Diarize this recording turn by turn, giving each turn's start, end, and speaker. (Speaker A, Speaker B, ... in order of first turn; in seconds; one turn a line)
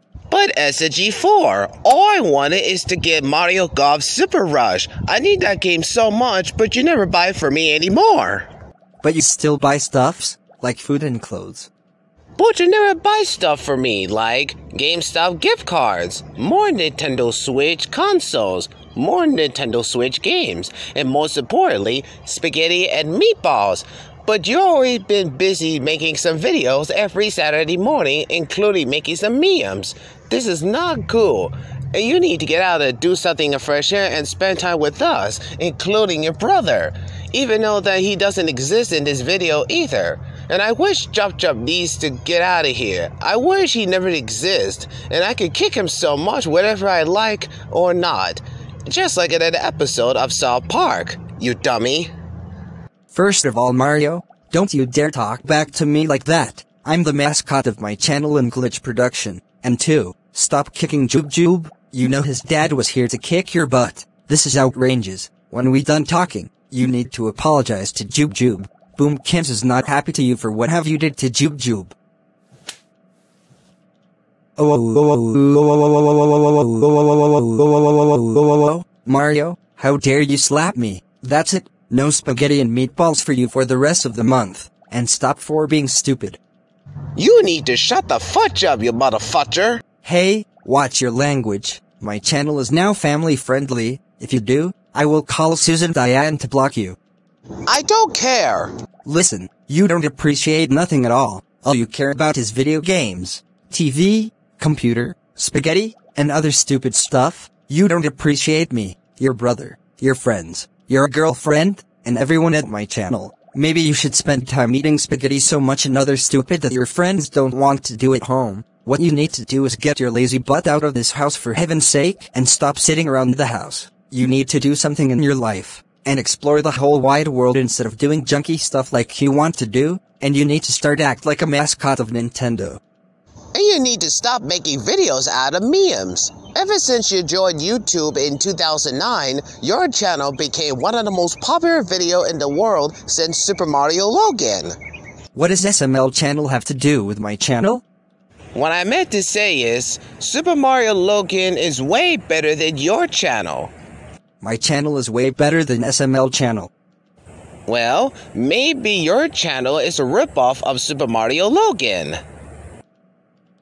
Speaker A: 0.3-8.5
Speaker B: 9.0-11.7
Speaker A: 12.4-52.1
Speaker B: 53.1-71.9
Speaker B: 74.6-86.4
Speaker A: 87.2-89.8
Speaker B: 90.0-97.0
Speaker A: 97.7-98.7
Speaker B: 99.0-132.8
Speaker A: 133.5-144.7
Speaker B: 145.3-147.8
Speaker A: 148.5-153.7
Speaker B: 154.4-156.7
Speaker A: 157.7-162.2